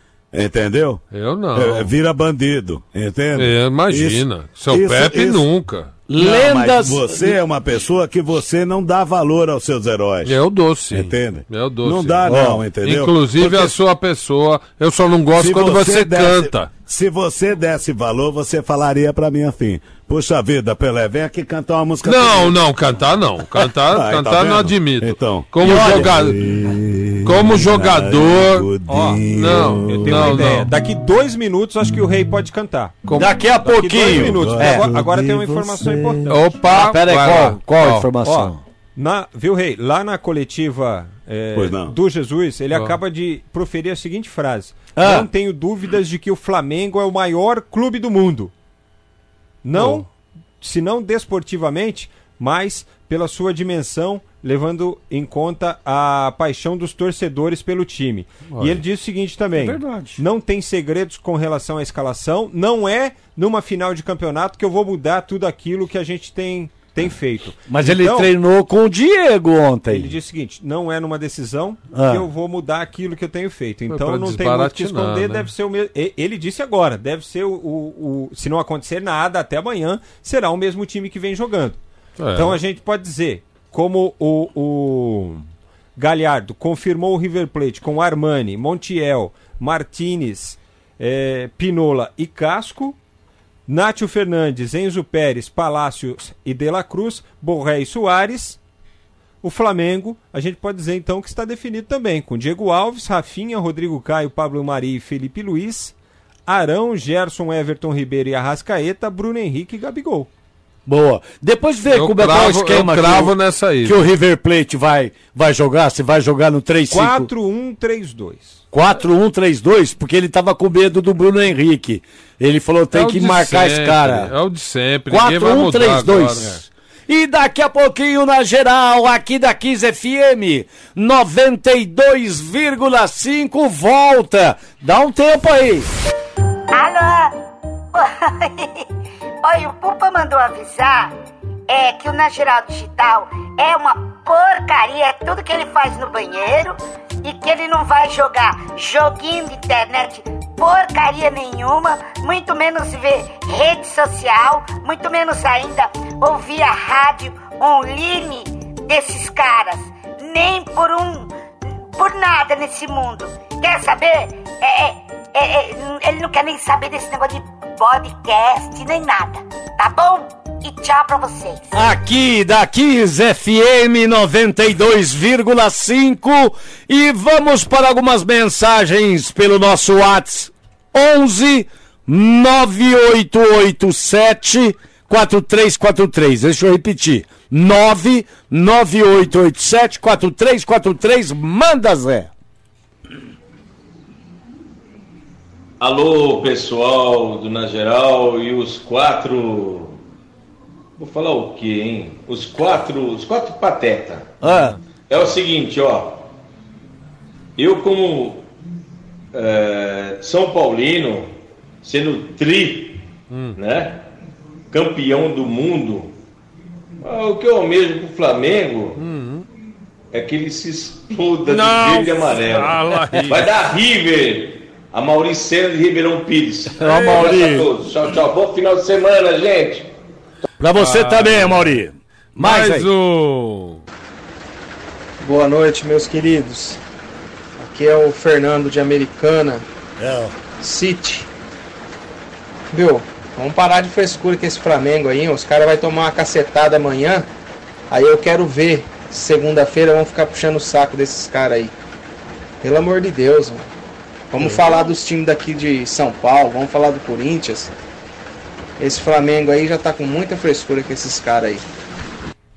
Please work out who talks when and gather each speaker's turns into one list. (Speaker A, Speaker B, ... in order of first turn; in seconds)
Speaker A: 0.3-1.0, 1.5-5.5, 6.2-10.4, 10.9-13.6, 15.3-22.6, 23.6-30.5, 34.0-35.2, 41.5-41.9
Speaker B: 1.1-1.9, 3.4-6.0, 10.2-12.3, 12.8-16.7, 22.1-26.4, 27.2-28.7, 29.3-30.7, 33.1-33.4, 36.3-38.1, 73.9-75.5, 82.2-82.6, 111.9-114.0, 122.9-126.6, 213.3-213.6, 219.0-219.5, 221.4-223.5, 230.8-231.8, 232.4-233.8
Speaker C: 6.1-7.4, 12.3-12.7, 25.6-26.1, 33.2-38.6, 45.0-45.3, 59.6-60.2, 67.7-70.1, 71.9-72.3, 110.9-117.3, 118.7-124.3, 125.1-135.9, 171.7-192.3, 204.4-204.8, 226.8-227.7, 230.6-232.9, 240.0-240.3
Speaker D: 28.9-29.3, 29.9-33.1, 33.6-36.3, 38.2-48.5, 49.6-50.1, 50.6-68.3, 69.9-81.8, 82.3-93.0, 93.7-98.6, 99.4-105.9, 106.5-110.3, 116.9-118.6
Speaker E: 136.7-137.3, 137.9-138.8, 139.4-141.1, 141.7-161.3, 161.9-171.8
Speaker F: 195.8-200.0, 201.0-204.3, 205.1-206.2, 207.6-208.5, 209.3-211.3, 211.8-213.0, 213.6-214.0, 214.7-216.1, 217.0-219.0, 220.1-229.9
Speaker G: 235.2-236.8, 237.6-239.7, 240.6-241.3, 242.7-247.3, 247.9-251.7, 252.6-253.7, 254.3-257.7, 258.8-261.6